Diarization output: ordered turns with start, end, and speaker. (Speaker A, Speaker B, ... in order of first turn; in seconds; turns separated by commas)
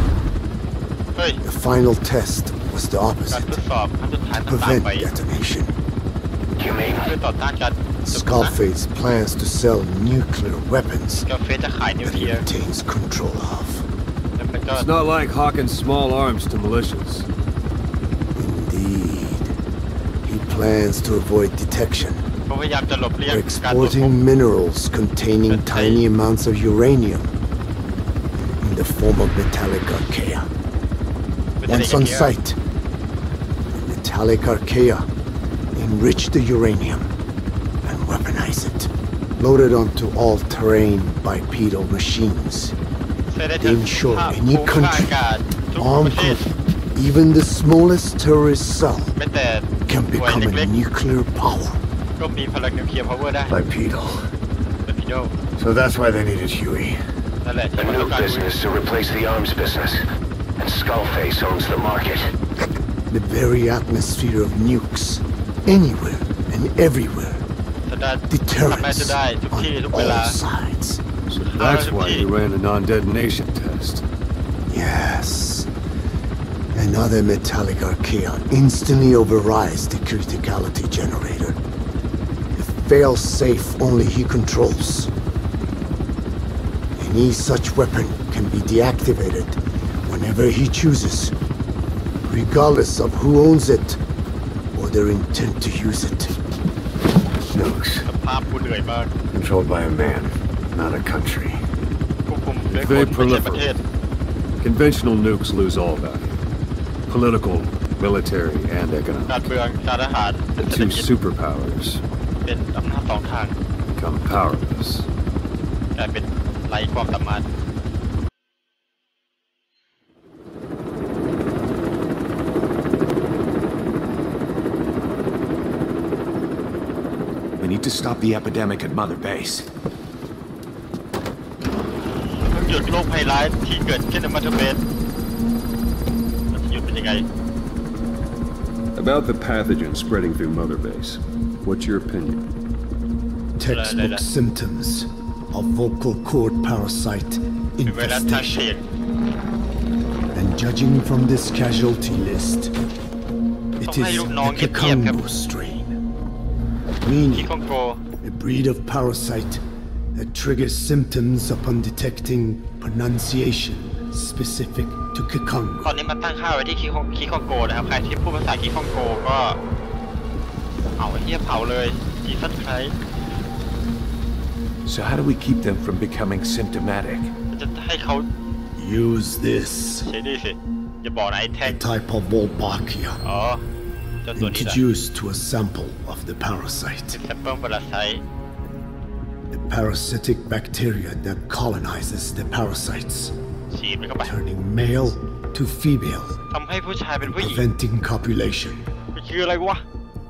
Speaker A: 1.1-1.4, Speaker B: 1.4-3.6, Speaker A: 3.3-5.1, Speaker B: 4.4-5.8, Speaker C: 6.6-7.1, Speaker A: 6.9-8.6, Speaker B: 8.0-11.3, Speaker A: 11.2-12.4, Speaker B: 12.0-13.9, Speaker A: 14.4-14.9, Speaker D: 14.8-17.3, Speaker B: 18.4-19.6, Speaker B: 20.2-22.3, Speaker A: 22.5-24.1, Speaker B: 23.3-27.3, Speaker A: 25.5-26.0, Speaker B: 28.6-30.5, Speaker A: 31.6-32.4, Speaker B: 31.7-32.6, Speaker B: 33.7-35.1, Speaker B: 35.8-37.1, Speaker B: 37.9-42.8, Speaker A: 43.3-46.4, Speaker B: 43.6-45.1, Speaker B: 45.8-49.1, Speaker A: 49.2-49.7, Speaker B: 49.9-51.8, Speaker A: 50.2-50.7, Speaker A: 52.2-53.6, Speaker B: 53.5-54.2, Speaker A: 54.9-55.3, Speaker B: 55.6-57.0, Speaker A: 57.4-58.5, Speaker C: 57.8-60.0, Speaker C: 60.6-62.3, Speaker B: 63.1-67.5, Speaker A: 67.8-70.4, Speaker B: 68.3-71.0, Speaker D: 71.3-74.0, Speaker A: 71.5-72.3, Speaker B: 74.7-75.7, Speaker B: 76.7-81.6, Speaker B: 82.5-85.1, Speaker B: 87.0-91.3, Speaker B: 92.2-94.0, Speaker B: 94.8-96.4, Speaker B: 97.5-98.1, Speaker A: 98.0-99.1, Speaker B: 99.3-101.6, Speaker A: 102.3-103.8, Speaker D: 102.7-103.7, Speaker D: 104.6-106.4, Speaker D: 107.1-109.5, Speaker A: 109.3-111.1, Speaker D: 110.6-112.0, Speaker A: 112.5-113.5, Speaker D: 114.0-115.1, Speaker A: 116.0-117.5, Speaker E: 127.6-129.7, Speaker A: 132.3-134.8, Speaker A: 136.5-137.3, Speaker D: 138.9-142.4, Speaker B: 143.6-148.7, Speaker A: 143.7-144.2, Speaker A: 147.9-148.8, Speaker B: 150.3-152.7, Speaker B: 153.8-156.0, Speaker A: 153.8-155.2, Speaker B: 157.0-157.5, Speaker A: 157.3-158.0, Speaker B: 158.2-159.6, Speaker B: 160.2-165.9, Speaker A: 165.8-169.6, Speaker A: 171.0-172.9, Speaker E: 174.9-177.3, Speaker A: 177.5-178.3, Speaker B: 178.8-180.1, Speaker A: 180.0-181.8, Speaker B: 181.7-183.2, Speaker A: 183.2-183.6, Speaker A: 184.2-184.8, Speaker B: 184.3-187.2, Speaker A: 187.1-188.2, Speaker B: 189.5-193.3, Speaker A: 193.7-194.3, Speaker B: 194.2-196.4, Speaker A: 196.5-197.6, Speaker B: 197.2-198.8, Speaker A: 199.1-199.8